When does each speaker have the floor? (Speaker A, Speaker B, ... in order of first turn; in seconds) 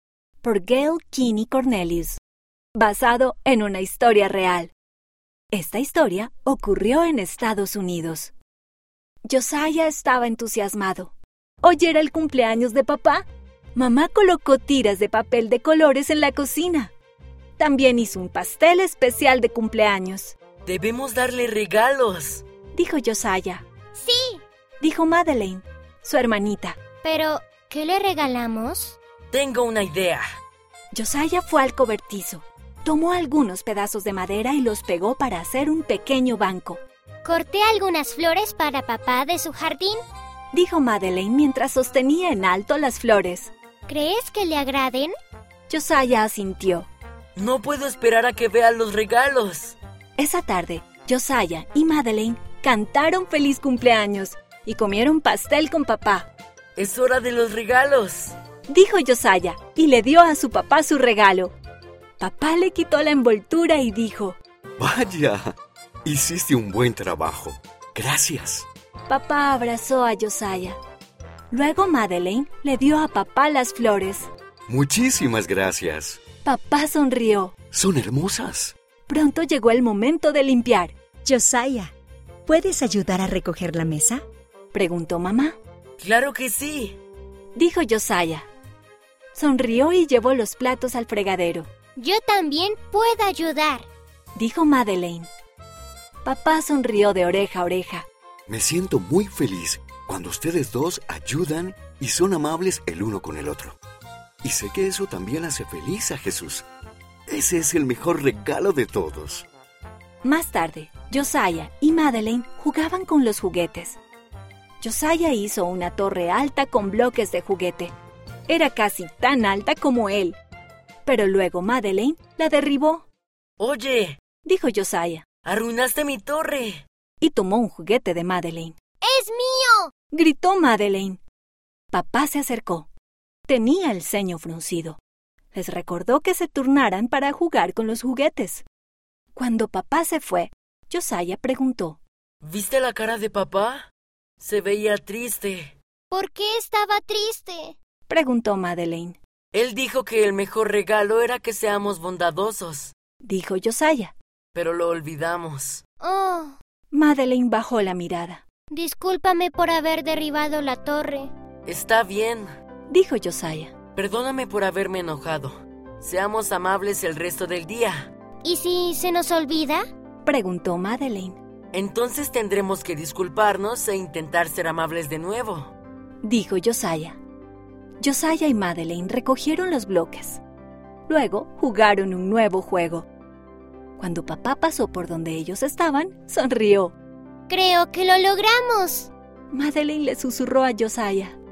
Speaker A: 0.4-2.2, 2.8-4.7, 5.5-8.3, 9.3-16.9, 17.6-20.4, 22.7-23.6, 24.8-26.8, 30.9-36.8, 40.5-43.5, 45.7-46.9, 50.2-56.3, 58.7-61.5, 62.2-64.4, 69.1-70.8, 71.5-74.3, 76.4-77.5, 79.1-80.9, 84.7-85.5, 87.5-88.5, 89.3-91.7, 94.3-95.3, 96.2-98.1, 110.2-114.0, 114.8-117.9, 118.5-120.3, 121.0-123.0, 124.4-125.2, 127.2-128.7, 130.1-131.2, 131.9-132.9, 133.5-135.0, 135.5-138.6, 139.3-142.0, 148.1-149.2, 153.2-154.1, 156.9-158.4, 162.9-163.7, 170.2-171.4, 176.2-177.2, 178.0-180.4, 181.1-183.1, 184.0-186.9, 189.5-191.4
Speaker B: 20.6-22.4, 29.3-30.2, 47.4-49.8, 56.8-58.4, 86.0-87.0, 123.6-124.2, 125.4-126.8, 142.4-143.9, 144.4-145.7, 149.5-152.9, 154.5-155.8, 161.7-162.5, 163.9-168.1, 171.7-175.7
Speaker C: 23.9-24.4, 27.0-29.0, 37.2-40.0, 43.9-45.1, 92.0-93.9, 129.0-129.9, 146.1-147.8, 156.0-156.6, 158.7-161.3, 168.4-169.8, 187.5-189.1
Speaker D: 64.8-65.5, 66.0-68.7, 74.7-76.2, 77.7-78.7, 98.5-103.8, 104.4-106.7, 107.3-109.5
Speaker E: 81.2-81.9, 82.5-84.2